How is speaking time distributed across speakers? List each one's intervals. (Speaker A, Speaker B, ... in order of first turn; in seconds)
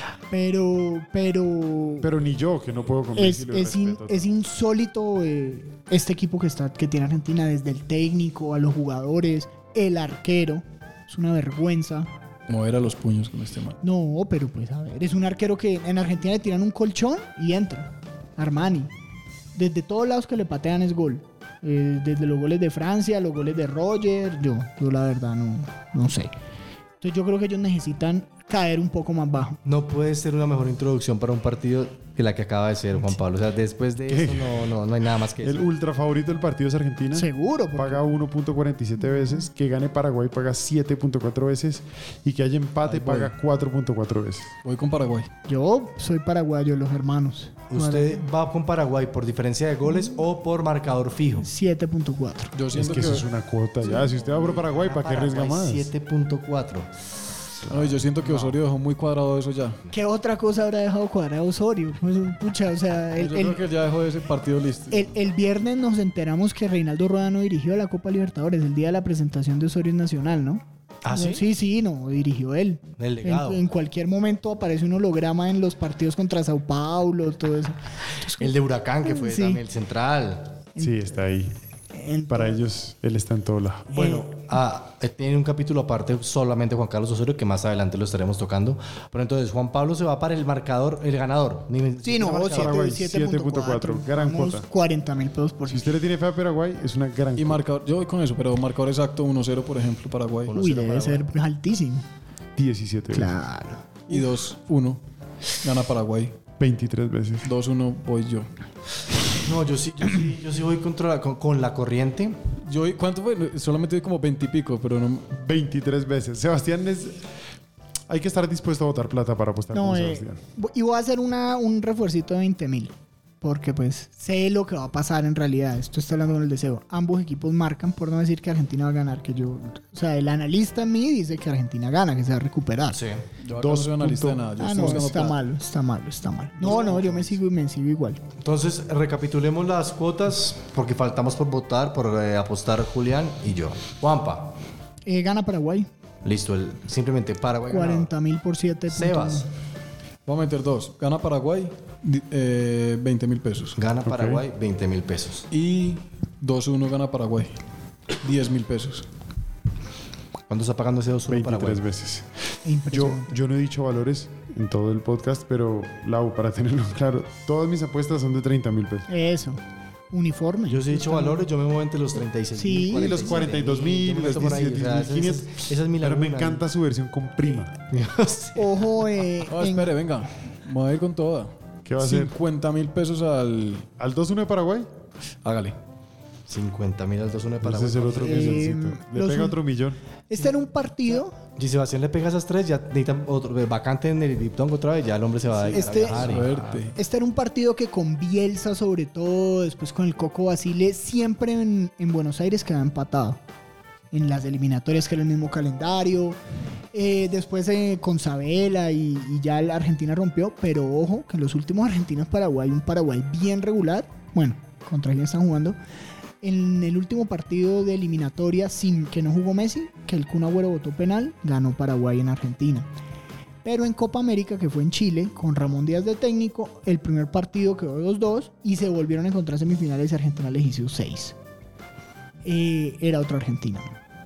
Speaker A: 0.3-2.1, 3.1-12.1, 13.8-18.9, 19.5-26.3, 27.0-29.6, 37.1-38.0, 45.5-48.2, 49.9-50.2, 51.4-52.5, 59.9-63.6, 64.9-79.6, 80.7-81.0, 81.9-82.6, 83.9-84.2, 92.0-96.0, 100.5-102.0, 103.1-104.2, 119.7-133.0, 134.6-138.2, 145.1-145.9, 147.7-149.5, 162.6-163.4, 169.1-169.6, 170.1-171.5, 172.5-173.5, 178.6-179.9, 188.2-189.6, 190.3-191.3, 195.6-196.4, 196.9-203.4, 204.1-206.4, 206.9-215.8, 216.4-222.9, 223.6-231.3, 232.4-233.9
Speaker B: 2.0-4.2, 34.1-34.7, 35.4-44.5, 52.7-55.9, 57.7-57.9, 80.8-81.5, 82.3-84.0, 92.5-94.7, 95.7-97.6, 102.5-103.3, 106.6-107.5, 115.3-117.2, 118.1-120.4, 133.6-135.1, 154.1-154.4, 161.3-162.3, 162.9-169.1, 172.9-177.7, 181.8-182.3, 184.0-184.9, 187.6-190.0
Speaker C: 12.5-13.8, 42.8-43.3, 44.6-45.3, 52.5-53.3, 57.7-59.8, 63.1-65.1, 97.3-100.5, 104.1-105.0, 105.6-106.3, 107.4-108.5, 112.6-115.3, 133.4-135.4, 150.2-153.8, 155.5-157.5, 158.2-159.1, 179.5-183.9, 185.4-185.7, 195.8-196.9
Speaker D: 29.6-35.7, 47.7-51.5, 53.8-56.9, 58.2-58.6, 71.0-71.5, 73.0-73.6, 78.4-80.6, 83.9-92.8, 100.5-101.2, 109.4-112.4, 132.9-133.2, 136.6-137.3, 138.4-144.5, 146.2-148.1, 148.9-149.5, 153.7-155.5, 160.5-161.8, 170.7-176.6, 177.9-179.0, 186.5-188.6, 191.6-196.8